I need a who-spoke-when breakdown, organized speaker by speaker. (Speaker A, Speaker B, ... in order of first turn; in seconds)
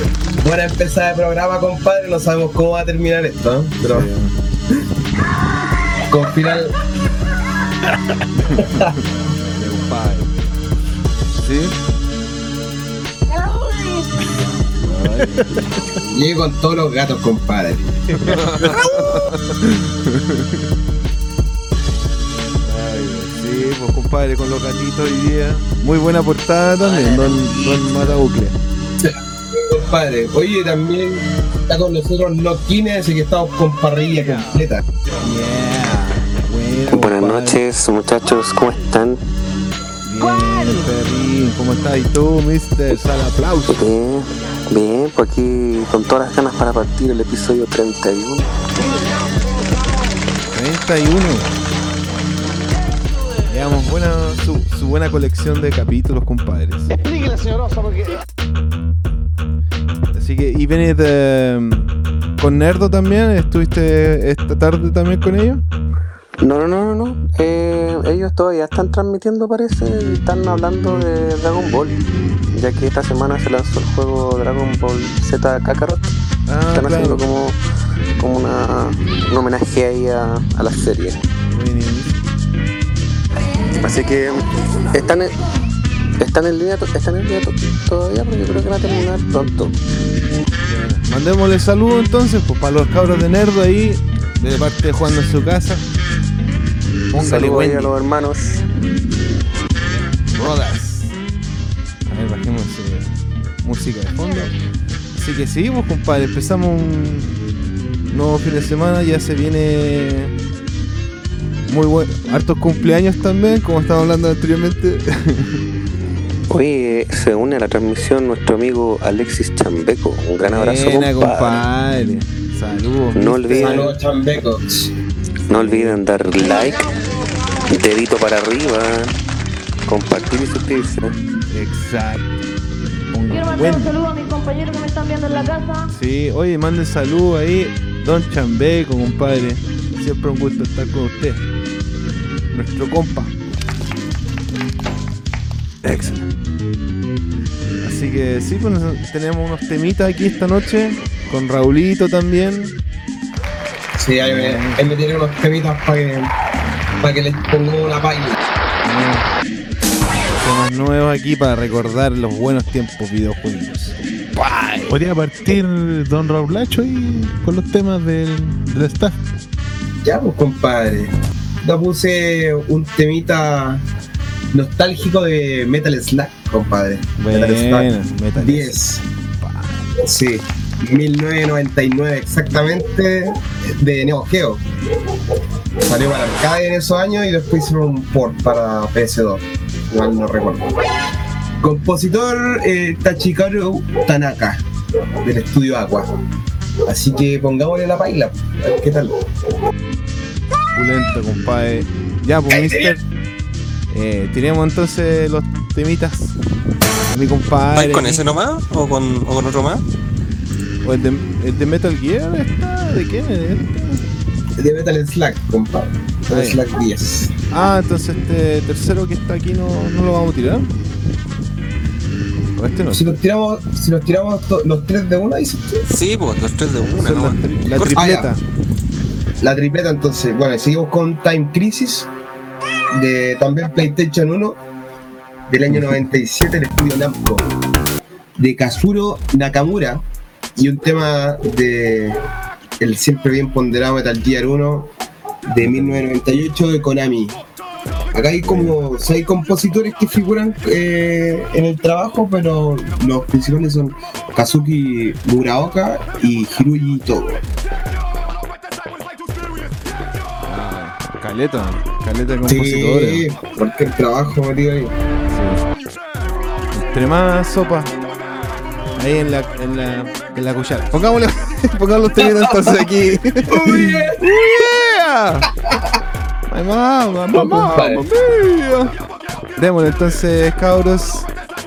Speaker A: 0.4-4.1, 6.1-6.7, 8.6-8.9, 16.1-17.9, 29.0-34.8, 123.5-124.9, 154.0-156.3, 157.0-158.4, 170.0-173.8, 174.5-179.0, 180.0-184.6, 185.8-190.8, 191.6-194.6, 195.2-196.1, 196.8-199.2, 202.5-202.9, 214.6-217.3, 222.9-225.8, 227.9-228.3, 229.4-232.1, 232.9-234.6, 235.5-237.4, 238.4-240.0, 240.6-242.2, 242.8-244.9, 245.5-247.4, 248.1-257.4, 262.5-264.9, 272.2-272.7, 273.5-274.4, 277.3-278.0
Speaker B: 3.8-4.3, 8.4-10.3, 11.3-11.7, 14.8-15.9, 18.2-20.6, 22.6-28.6, 35.2-37.6, 40.0-43.9, 50.5-51.5, 53.5-57.0, 60.1-65.6, 76.5-77.2, 81.5-82.1, 90.7-95.8, 97.1-97.9, 100.2-101.1, 102.1-104.5, 105.2-107.3, 108.1-110.3, 111.7-115.6, 120.4-123.9, 125.5-126.0, 131.5-132.3, 133.1-133.9, 135.9-141.4, 142.5-143.4, 145.8-146.3, 147.8-152.7, 154.2-154.8, 158.8-159.3, 160.3-164.9, 177.2-178.8, 179.4-179.9, 200.7-203.0, 203.9-206.3, 207.1-208.3, 210.8-214.0, 216.3-216.6, 217.5-220.7, 222.6-223.2, 226.8-228.4, 245.6-246.0, 248.4-248.8, 260.5-263.2, 265.3-265.6, 266.7-267.9, 269.0-275.5, 276.5-278.9, 279.6-281.3
Speaker C: 15.3-15.6, 18.1-19.1, 164.9-169.2
Speaker D: 36.9-39.2, 43.7-48.5, 66.4-72.0, 72.5-76.1, 76.7-77.6, 78.2-81.2, 83.8-85.3, 86.2-89.7, 97.2-98.6, 116.5-121.6, 123.2-123.9, 125.5-126.9, 127.7-129.1, 129.9-131.1
Speaker E: 133.3-135.8
Speaker F: 207.7-209.8, 225.9-228.1